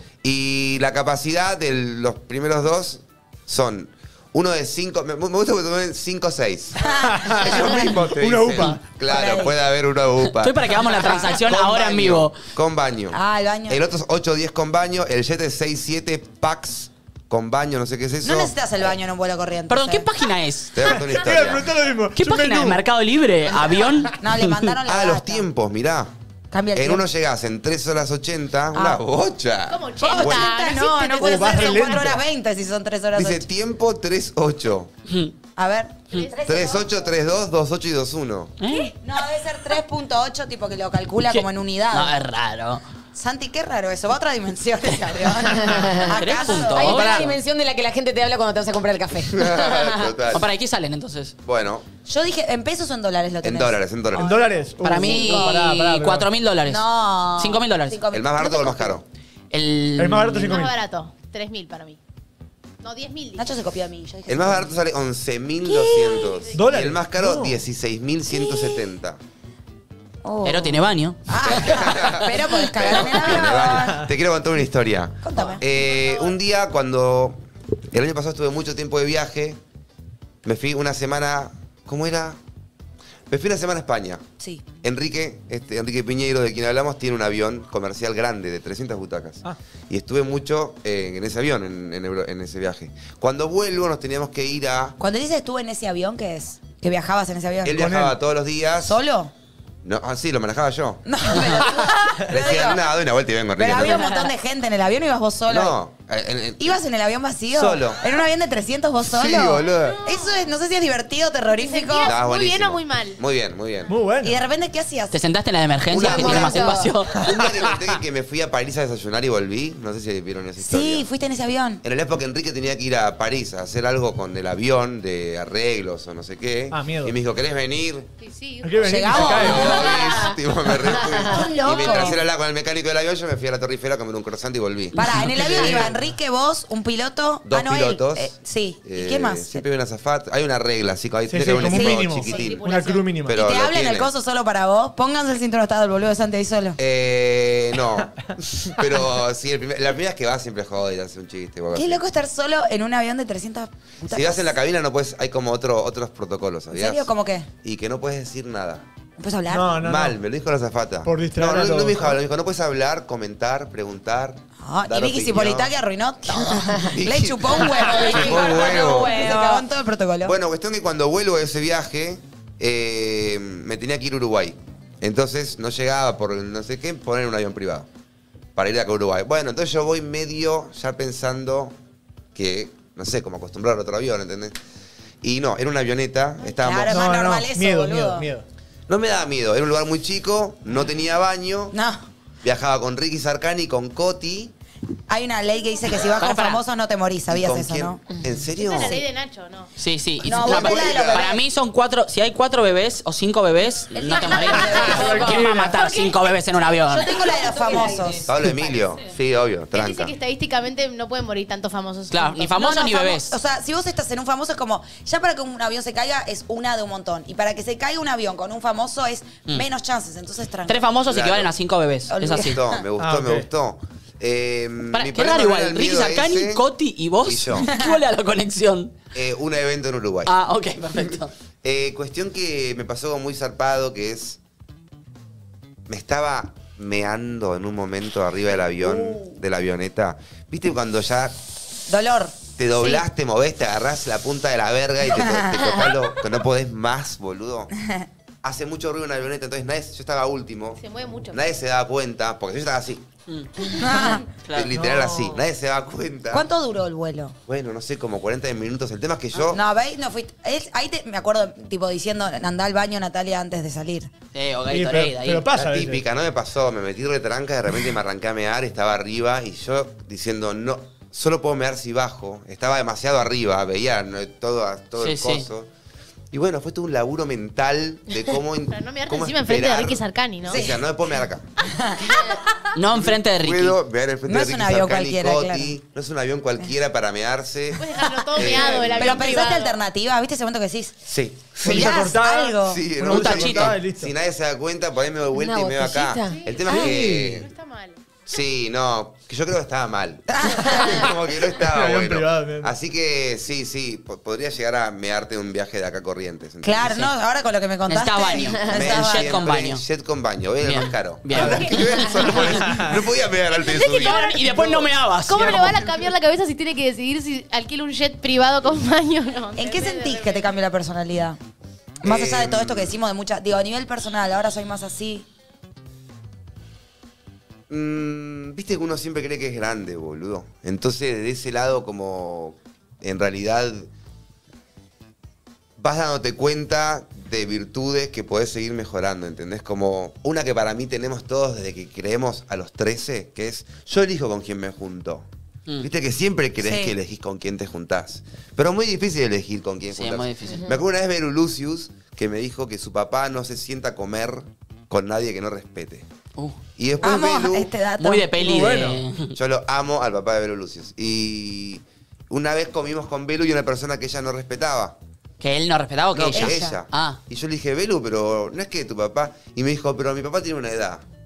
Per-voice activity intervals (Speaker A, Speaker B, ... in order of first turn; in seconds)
Speaker A: 0.2-18.9, 20.7-21.7, 24.9-26.1, 26.8-30.5, 33.1-34.9, 36.4-38.5, 49.3-50.5, 51.4-51.9, 53.4-54.4, 58.1-59.0, 64.3-69.2, 71.4-77.4, 77.9-79.6, 80.4-82.4, 83.3-84.2, 84.8-95.0, 97.7-99.0, 99.8-104.2, 105.5-106.8, 107.5-108.2, 109.0-110.0, 112.0-113.9, 115.9-121.1, 121.8-128.1, 129.1-135.9, 137.4-142.6, 143.2-144.1, 146.8-152.0, 154.1-157.1, 157.6-158.9, 159.8-165.7, 166.8-169.4, 170.2-177.9, 178.6-181.8, 182.3-184.6, 185.2-187.1, 188.9-191.8, 192.4-194.5, 197.3-199.0, 200.2-201.4, 208.3-210.1, 221.1-221.5, 222.3-226.6, 227.2-227.7, 229.1-230.3, 231.6-234.4, 235.9-241.3, 242.6-247.7, 248.4-253.1, 254.5-256.5, 257.5-259.6, 265.5-275.7, 276.3-281.5, 282.9-289.4, 291.1-297.5, 298.3-307.1, 308.6-314.3, 322.0-323.0, 327.7-333.9, 335.8-345.3, 345.8-356.1, 356.8-357.7, 359.3-365.0, 366.1-371.0
Speaker B: 6.8-8.0, 9.1-9.5, 13.1-13.8, 18.2-20.1, 24.2-25.5, 26.5-27.1, 28.7-29.0, 30.0-33.5, 35.6-37.0, 38.7-42.2, 43.1-47.3, 52.1-53.8, 55.0-55.6, 56.7-59.0, 63.4-64.7, 65.7-66.3, 68.3-68.8, 70.2-74.1, 75.2-75.6, 95.0-98.0, 98.8-99.3, 101.0-102.8, 103.6-105.8, 106.6-112.2, 114.2-115.2, 116.2-116.7, 120.6-121.8, 128.8-130.0, 131.2-132.2, 134.9-139.7, 141.6-142.1, 143.3-146.8, 151.7-154.5, 156.7-157.5, 159.2-159.8, 164.6-170.4, 186.6-188.3, 191.7-192.1, 195.1-198.0, 200.2-201.4, 203.9-205.8, 206.9-208.3, 212.6-220.8, 222.1-222.8, 227.7-227.9, 241.9-242.4, 245.1-245.9, 253.7-254.2, 256.3-257.4, 259.5-264.1, 280.5-280.8, 281.6-282.0, 284.3-285.8, 288.9-291.0, 291.6-292.8, 296.7-297.0, 300.3-301.1, 306.6-309.3, 319.6-321.4, 322.0-325.3, 346.6-346.9, 357.0-358.8, 366.3-366.8
Speaker C: 7.1-8.8, 20.8-22.8, 31.2-32.2, 54.1-56.3, 60.0-60.8, 66.5-67.6, 97.7-98.2, 113.9-114.4, 126.7-127.2, 128.6-129.9, 135.1-136.0, 141.3-143.4, 159.5-160.2, 161.1-162.2, 186.9-188.4, 204.6-205.8, 223.0-223.5, 254.7-255.4, 264.7-266.0, 291.6-294.1, 296.8-297.4, 301.6-302.7, 358.4-359.0
Speaker D: 10.3-12.4, 19.7-21.0, 22.1-24.7, 35.1-35.3, 38.6-38.9, 41.3-42.8, 46.1-47.4, 50.3-51.4, 54.8-56.9, 57.4-58.0, 59.5-60.7, 70.4-72.1, 115.1-117.5, 196.0-196.6, 199.8-207.2, 212.1-213.3, 220.7-222.6, 224.9-229.0, 230.3-231.3, 253.3-254.7, 264.3-265.5, 275.0-275.5, 282.8-283.8, 293.0-293.8, 307.9-309.8, 310.6-312.5, 313.9-316.0, 349.9-350.7, 358.0-359.4, 365.4-367.2
Speaker E: 29.7-32.0, 36.1-37.0, 60.4-62.0, 62.8-63.6, 66.0-66.8, 75.7-76.4, 109.8-110.5, 111.6-113.2, 128.2-129.2, 130.0-130.2, 142.0-143.2, 198.6-199.7, 204.3-205.0, 205.8-206.2, 209.7-212.7, 250.8-251.5, 278.7-280.6, 282.1-282.4, 287.8-289.8, 296.3-298.0, 311.4-312.4, 313.6-314.6, 315.2-320.6
Speaker F: 45.5-50.2, 116.0-116.9, 129.7-130.4, 166.5-166.9, 167.9-169.6, 207.1-208.8, 295.3-296.4, 350.5-350.8